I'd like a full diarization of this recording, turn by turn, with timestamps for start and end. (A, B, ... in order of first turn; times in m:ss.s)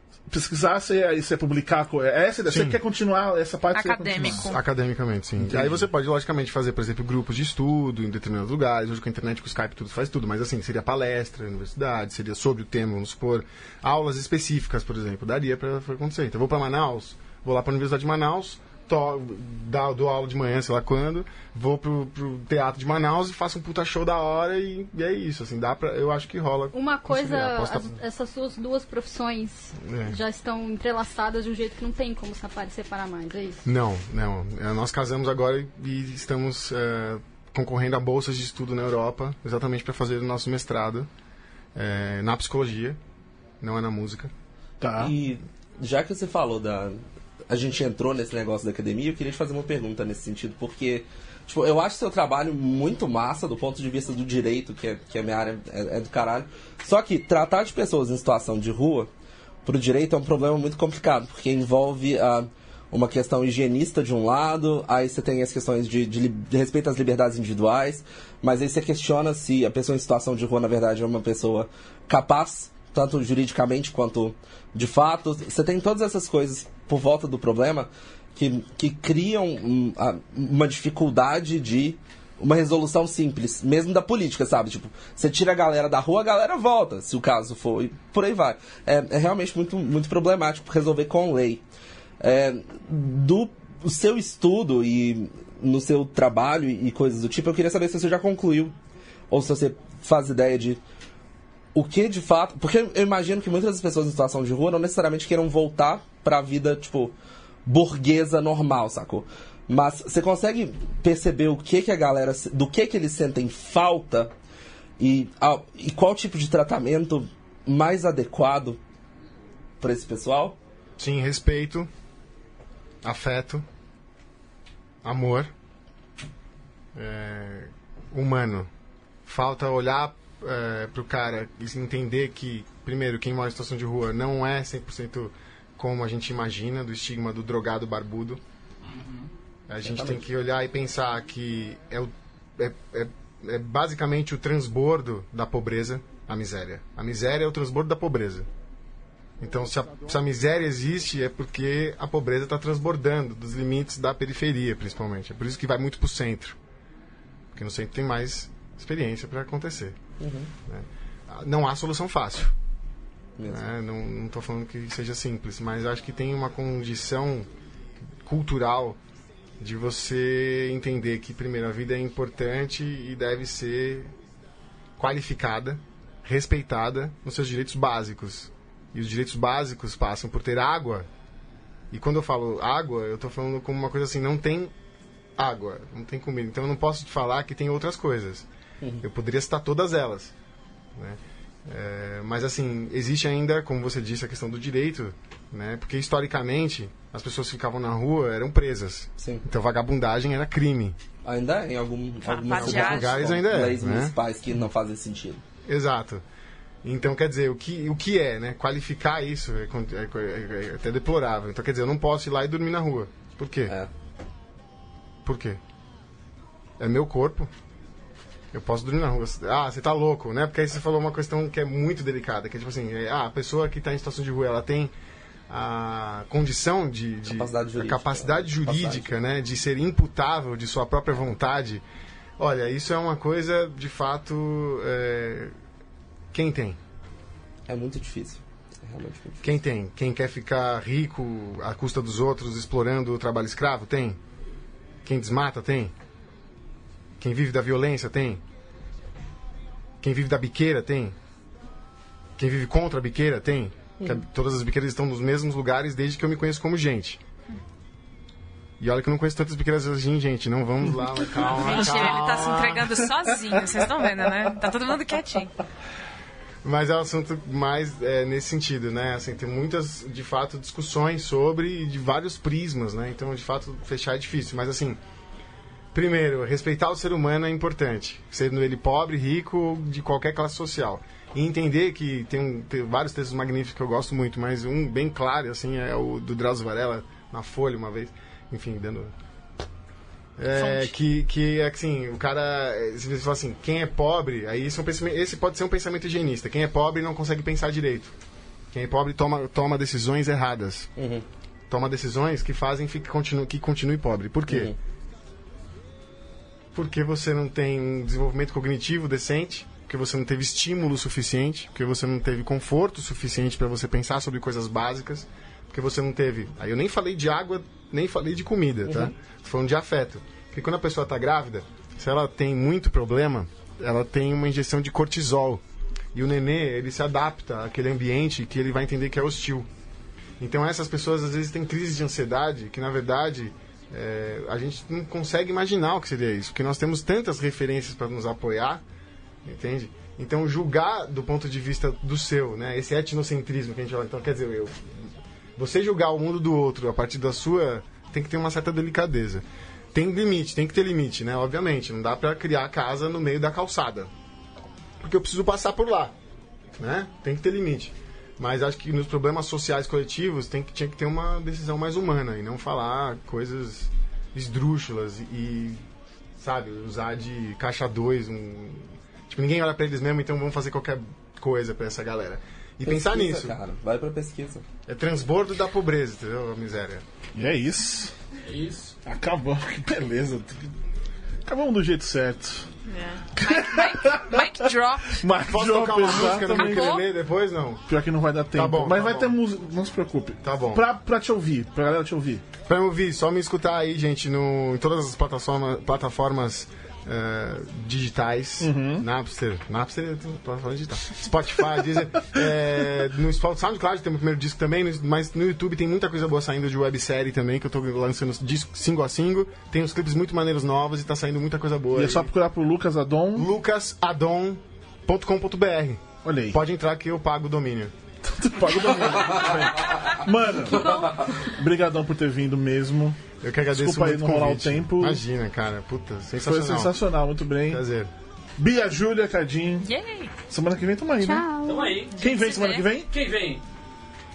0:00.3-0:04.5 A
0:02.5-0:02.8 B
0:03.7-0:04.6 C
0:04.4-0:28.0 B
0:05.4-0:05.8 A
0:26.7-0:33.6 D
0:29.8-0:30.2 B
0:33.6-0:41.1 B
0:41.7-0:43.0 B
0:43.6-0:44.3 B
0:44.8-0:45.1 A
0:45.0-0:59.1 E
0:59.6-1:31.6 E
1:32.2-1:38.7 E
1:39.3-1:40.8 E
1:41.7-1:47.1 E
1:47.6-1:54.3 E
1:55.0-1:58.8 E
1:59.8-2:00.6 E
2:01.0-2:01.9 B
2:03.0-2:03.6 B
2:05.0-2:05.5 B
2:06.9-2:08.7 B
2:09.2-2:18.4 B
2:18.9-2:19.3 F
2:19.7-2:28.5 B
2:19.8-2:20.2 E
2:29.4-2:36.6 B
2:37.5-2:40.0 B
2:40.2-2:40.5 E
2:40.7-2:42.5 B
2:43.4-2:43.6 E
2:43.5-2:47.5 B
2:48.2-2:49.0 B
2:49.6-2:54.1 B
2:55.0-3:01.1 B
3:01.9-3:04.7 B
3:05.4-3:08.5 B
3:09.0-3:10.3 B
3:10.9-3:21.0 B
3:19.2-3:19.4 E
3:21.2-3:25.4 E
3:22.3-3:23.1 C
3:22.6-3:24.2 B
3:25.6-3:26.2 B
3:26.8-3:33.7 B
3:35.2-3:35.6 B
3:36.8-3:37.5 B
3:38.5-3:44.9 B
3:45.5-3:51.8 B
3:47.3-3:49.1 E
3:52.4-3:55.5 B
3:56.3-3:56.8 B
3:57.7-3:59.5 E
3:59.4-4:04.2 B
4:05.0-4:05.9 B
4:07.2-4:08.4 B
4:10.0-4:11.2 B
4:12.4-4:17.2 B
4:18.8-4:23.1 B
4:21.4-4:25.5 C
4:26.6-4:35.0 B
4:35.9-4:49.1 B
4:50.4-4:58.1 B
4:58.7-5:00.9 B
5:01.0-5:01.2 E
5:01.7-5:04.7 B
5:04.5-5:04.8 E
5:06.7-5:25.6 B
5:26.1-5:29.7 B
5:30.4-5:38.8 B
5:39.4-5:54.1 B
5:55.0-5:56.1 B
5:56.8-6:05.8 B
6:06.4-6:13.6 B
6:12.8-6:14.6 E
6:14.8-6:17.0 B
6:17.3-6:18.1 A
6:18.5-6:18.9 F
6:19.0-6:20.7 A
6:21.4-6:22.7 A
6:22.9-6:25.2 C
6:23.3-6:24.5 A
6:25.1-6:27.0 A
6:25.4-6:27.8 B
6:26.0-6:27.0 C
6:27.9-6:32.4 A
6:28.5-6:29.4 B
6:30.4-6:30.8 B
6:32.6-6:52.3 B
6:38.6-6:39.0 A
6:51.9-6:53.5 A
6:53.3-6:57.9 B
6:56.2-6:56.6 A
6:58.2-7:03.2 A
7:00.7-7:01.2 D
7:00.8-7:01.1 E
7:03.4-7:07.0 B
7:03.7-7:05.2 A
7:06.4-7:07.8 A
7:07.6-7:08.1 B
7:08.6-7:09.9 A
7:09.8-7:10.3 C
7:10.5-7:11.5 A
7:11.2-7:12.0 D
7:11.6-7:12.4 F
7:12.2-7:13.1 A
7:12.2-7:12.9 C
7:13.1-7:13.6 F